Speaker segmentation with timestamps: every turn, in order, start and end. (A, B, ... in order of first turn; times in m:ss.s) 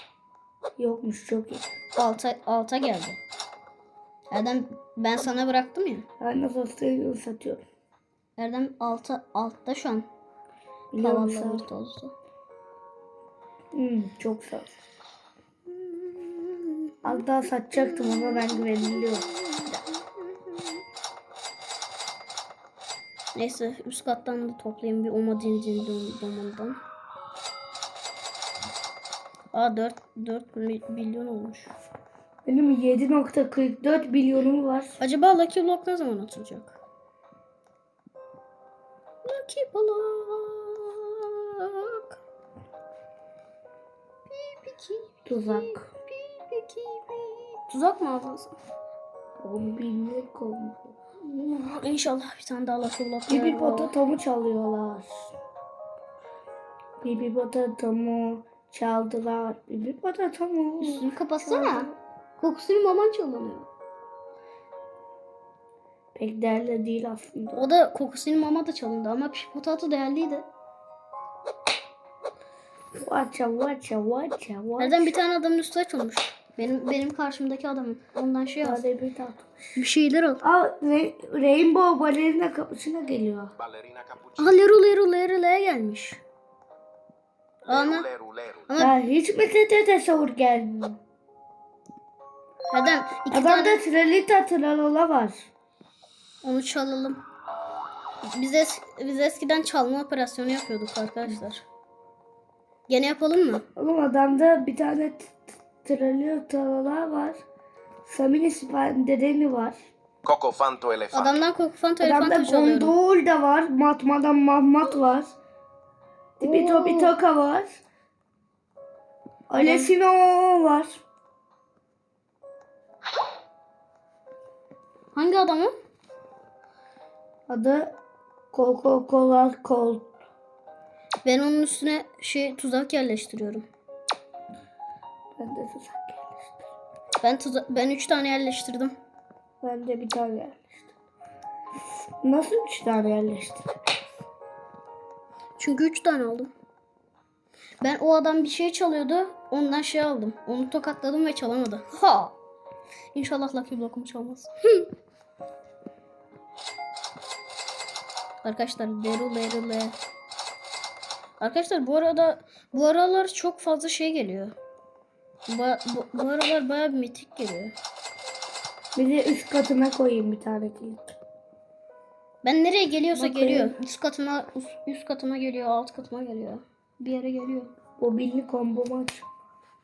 0:00.8-0:01.7 A
0:02.0-0:03.2 B
0:04.3-0:06.1 B
0:06.2-0:07.6 A
0:08.4-0:10.1 B
0:10.9-0:11.7 A
0:11.0-0:12.1 B
0:13.7-0:14.8 A
0:15.7-0:17.2 B
0:17.0-0:19.2 A
0:17.8-0:20.7 B
0:23.4-0:26.8 B
0:29.5-0:31.7 B
0:32.4-0:35.0 A
0:35.0-0:36.8 B
0:39.2-0:42.2 B
0:44.3-0:48.6 B
0:45.3-0:45.9 A
0:49.4-0:51.0 A
0:51.2-0:53.9 B
0:53.3-0:55.3 A
0:57.0-1:02.0 A
1:00.8-1:03.7 B
1:06.2-1:07.7 A
1:07.6-1:10.5 B
1:13.0-1:15.2 A
1:14.8-1:18.8 B
1:18.6-1:19.8 A
1:19.8-1:20.4 B
1:20.4-1:23.5 A
1:23.6-1:24.6 C
1:24.4-1:26.2 B
1:27.7-1:28.1 B
1:27.7-1:28.7 C
1:28.7-1:29.0 B
1:28.8-1:31.0 A
1:32.7-1:33.8 B
1:33.3-1:35.5 A
1:36.4-1:37.2 B
1:38.2-1:41.7 B
1:42.9-1:43.6 B
1:43.8-1:47.4 A
1:48.1-1:49.8 A
1:50.2-1:51.4 C
1:51.1-1:53.0 B
1:52.0-1:55.4 A
1:56.4-1:57.2 B
1:56.4-1:57.8 A
1:59.5-2:01.0 A
1:59.6-1:59.9 B
2:05.1-2:05.7 B
2:07.5-2:08.0 A
2:08.5-2:10.1 A
2:11.2-2:13.7 B
2:15.4-2:16.7 A
2:17.2-2:19.0 B
2:19.6-2:20.9 A
2:22.2-2:23.9 A
2:25.6-2:26.5 B
2:27.8-2:32.4 B
2:33.1-2:34.9 B
2:38.4-2:40.0 B
2:41.4-2:44.5 B
2:45.5-2:47.8 B
2:49.0-2:51.2 A
2:52.4-2:57.7 B
2:53.1-2:53.8 A
2:58.0-2:59.3 A